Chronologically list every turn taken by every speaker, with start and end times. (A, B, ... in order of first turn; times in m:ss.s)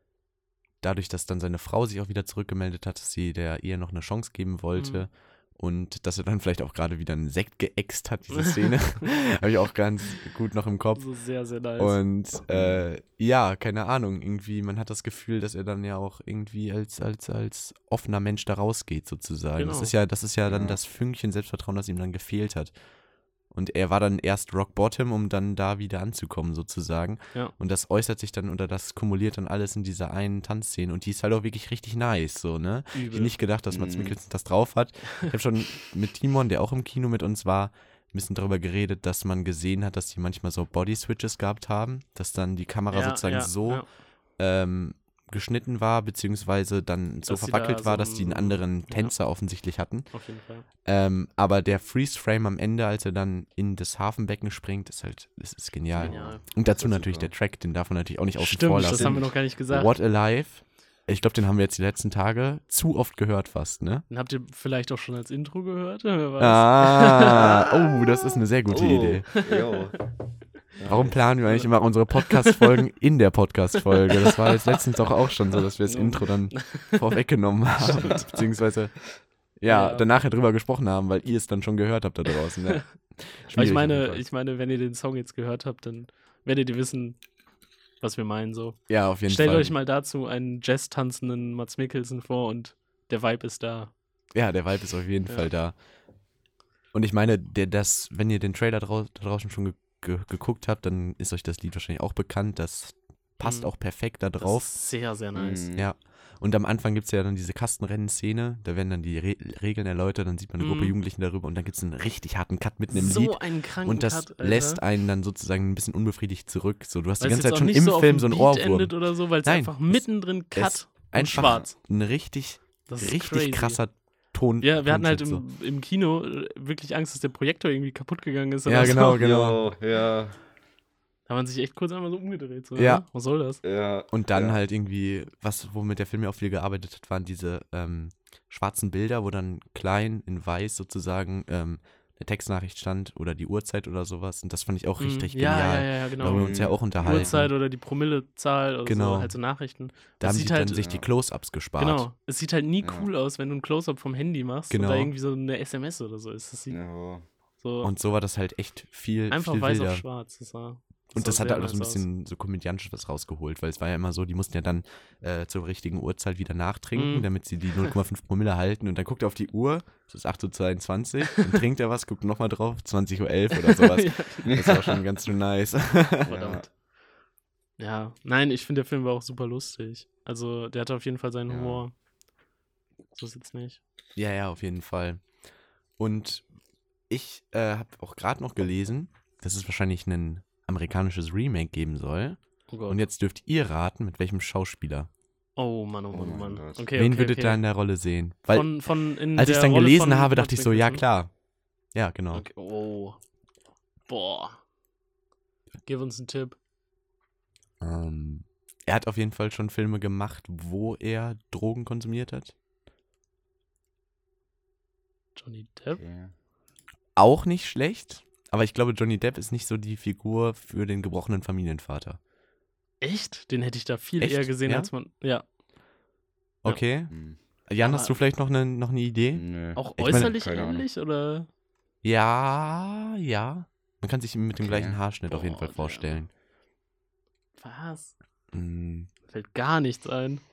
0:00.8-0:11.0 A
0:04.7-0:05.1 B
0:11.0-0:12.0 B
0:11.8-0:22.7 A
0:12.5-0:12.8 C
0:19.6-0:19.9 B
0:20.4-0:20.8 C
0:23.5-0:43.8 A
0:32.9-0:33.3 B
0:33.7-0:34.2 C
0:42.9-0:43.8 B
0:44.4-0:50.1 A
0:47.3-0:49.1 B
0:50.1-0:50.6 B
0:50.8-1:04.0 A
0:55.9-0:57.3 C
0:56.0-0:56.4 B
0:58.4-0:59.9 B
0:58.8-0:59.3 C
1:04.1-1:07.5 B
1:06.4-1:09.3 A
1:07.4-1:07.7 C
1:08.7-1:10.0 C
1:09.3-1:09.8 B
1:10.8-1:11.2 C
1:10.8-1:19.0 A
1:11.5-1:12.8 B
1:13.9-1:14.6 B
1:15.8-1:17.0 B
1:17.8-1:18.2 B
1:19.6-1:24.2 A
1:19.6-1:20.1 B
1:23.5-1:27.2 B
1:28.0-1:33.9 B
1:28.9-1:29.7 A
1:34.3-1:35.7 A
1:36.9-1:44.7 A
1:43.4-1:43.7 B
1:44.4-1:45.7 B
1:45.3-1:45.9 C
1:45.7-2:05.4 A
1:50.6-1:50.9 B
1:52.9-1:54.8 B
1:57.2-2:01.7 B
2:02.9-2:03.8 B
2:04.6-2:09.2 B
2:08.6-2:09.6 A
2:09.0-2:10.4 C
2:11.3-2:13.6 B
2:12.8-2:13.0 A
2:13.6-2:14.6 C
2:14.1-2:27.5 A
2:25.0-2:30.9 B
2:26.2-2:27.4 C
2:28.8-2:29.3 A
2:30.2-2:32.1 A
2:31.8-2:36.8 B
2:32.8-2:33.1 C
2:34.7-2:35.1 A
2:36.7-2:37.2 C
2:37.6-2:37.9 B
2:37.8-2:40.0 A
2:39.3-2:42.0 B
2:41.1-2:56.4 A
2:46.9-2:47.3 B
2:51.3-2:51.6 B
2:53.5-2:54.9 B
2:54.4-2:55.0 C
2:56.2-2:56.6 C
2:56.2-2:56.7 B
2:57.8-3:01.9 B
3:01.5-3:01.8 C
3:03.1-3:03.8 B
3:04.2-3:05.2 A
3:06.0-3:06.4 A
3:07.1-3:15.1 A
3:12.7-3:13.0 B
3:15.6-3:17.6 B
3:16.1-3:16.9 C
3:16.9-3:18.7 A
3:18.5-3:21.0 B
3:19.3-3:21.3 A
3:21.9-3:22.4 A
3:22.3-3:23.2 B
3:24.1-3:24.6 B
3:25.8-3:26.6 B
3:27.8-3:32.5 A
3:35.4-3:36.0 B
3:35.9-3:36.3 C
3:37.2-3:42.2 A
3:43.0-3:45.4 B
3:44.2-3:44.9 A
3:46.6-3:47.1 A
3:47.1-3:47.4 C
3:47.7-3:49.4 A
3:47.8-3:48.2 B
3:49.3-3:50.8 C
3:49.8-3:51.5 B
3:50.0-3:50.3 A
3:52.0-3:56.3 A
3:54.6-3:55.0 C
3:55.3-3:56.2 B
3:57.6-3:58.1 B
3:58.5-3:59.1 A
3:59.3-4:00.4 B